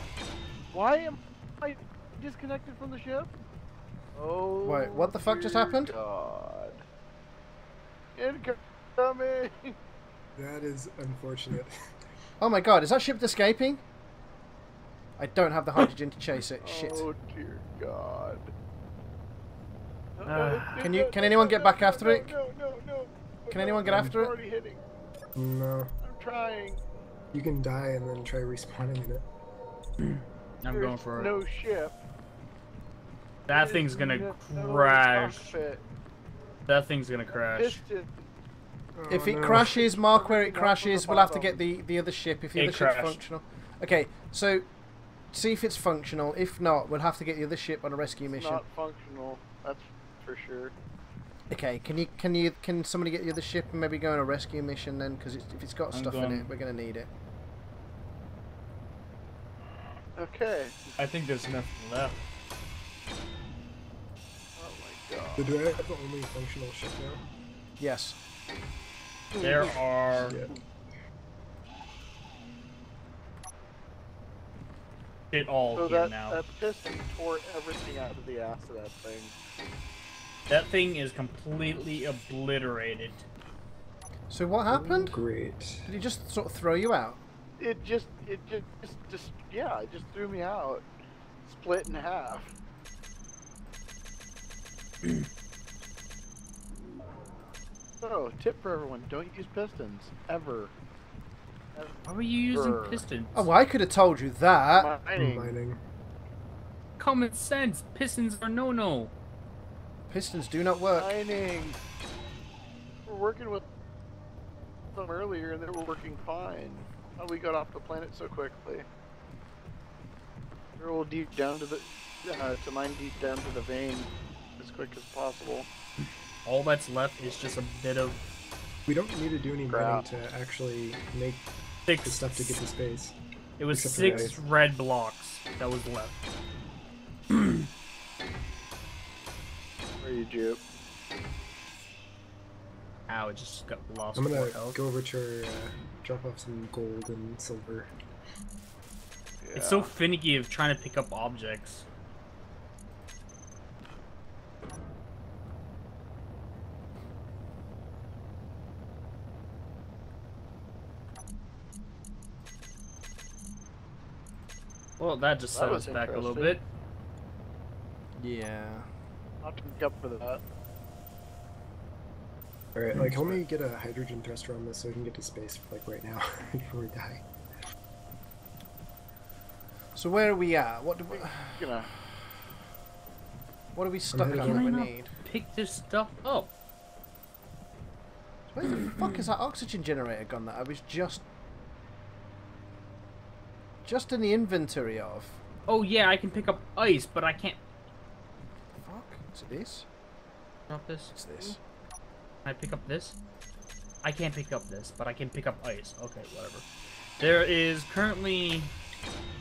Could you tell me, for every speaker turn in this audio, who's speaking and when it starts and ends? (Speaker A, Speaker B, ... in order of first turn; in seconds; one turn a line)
Speaker A: 0.7-3.3
Speaker A: 4.2-6.8
Speaker B: 4.7-5.9
Speaker A: 8.2-9.8
Speaker C: 10.4-11.8
Speaker B: 12.4-13.8
Speaker B: 15.2-17.1
Speaker A: 16.6-18.5
Speaker A: 20.2-24.8
Speaker D: 20.3-20.9
Speaker B: 20.8-22.4
Speaker B: 23.5-24.3
Speaker C: 23.9-24.1
Speaker C: 25.4-25.9
Speaker A: 26.0-26.8
Speaker C: 27.3-29.3
Speaker D: 30.6-31.4
Speaker A: 30.7-32.0
Speaker D: 33.5-35.5
Speaker A: 33.5-35.8
Speaker D: 36.7-37.8
Speaker A: 37.5-38.3
Speaker C: 39.0-39.8
Speaker B: 39.1-44.7
Speaker A: 39.7-41.6
Speaker D: 42.5-43.2
Speaker B: 45.3-48.6
Speaker A: 48.4-50.7
Speaker B: 51.5-57.1
Speaker D: 55.9-56.5
Speaker A: 60.2-60.9
Speaker D: 61.0-62.2
Speaker A: 64.6-65.7
Speaker C: 65.4-67.3
Speaker B: 67.8-68.2
Speaker A: 69.3-69.8
Speaker D: 69.4-70.4
Speaker C: 70.1-70.5
Speaker D: 75.3-76.4
Speaker A: 75.7-79.3
Speaker D: 80.5-83.3
Speaker B: 84.3-85.2
Speaker C: 84.7-85.9
Speaker B: 85.8-87.2
Speaker A: 87.6-90.9
Speaker A: 91.4-92.5
Speaker A: 98.0-100.7
Speaker A: 101.8-103.0
Speaker D: 102.0-103.5
Speaker B: 103.3-104.9
Speaker A: 104.7-105.6
Speaker C: 105.2-105.8
Speaker D: 107.0-109.1
Speaker B: 110.1-111.2
Speaker A: 110.9-111.8
Speaker A: 113.1-113.6
Speaker A: 114.9-118.9
Speaker A: 120.8-125.7
Speaker D: 126.5-128.2
Speaker C: 128.9-133.2
Speaker A: 129.7-130.1
Speaker D: 131.9-132.6
Speaker D: 133.6-136.2
Speaker C: 133.7-134.4
Speaker A: 134.0-134.3
Speaker D: 137.3-137.6
Speaker A: 140.0-140.6
Speaker D: 143.1-144.8
Speaker C: 144.2-147.9
Speaker A: 149.4-149.9
Speaker D: 149.6-151.8
Speaker D: 165.0-166.6
Speaker A: 165.5-166.6
Speaker B: 168.2-168.9
Speaker A: 169.4-170.4
Speaker C: 172.8-177.2
Speaker B: 179.9-182.2
Speaker A: 181.1-181.9
Speaker B: 183.8-185.1
Speaker C: 184.1-184.7
Speaker D: 184.4-186.5
Speaker B: 188.5-191.2
Speaker D: 188.9-189.3
Speaker B: 193.8-195.4
Speaker D: 195.7-197.6
Speaker B: 198.8-199.9
Speaker D: 200.7-201.1
Speaker B: 201.1-201.6
Speaker D: 202.4-203.2
Speaker D: 204.0-206.7
Speaker D: 207.2-208.7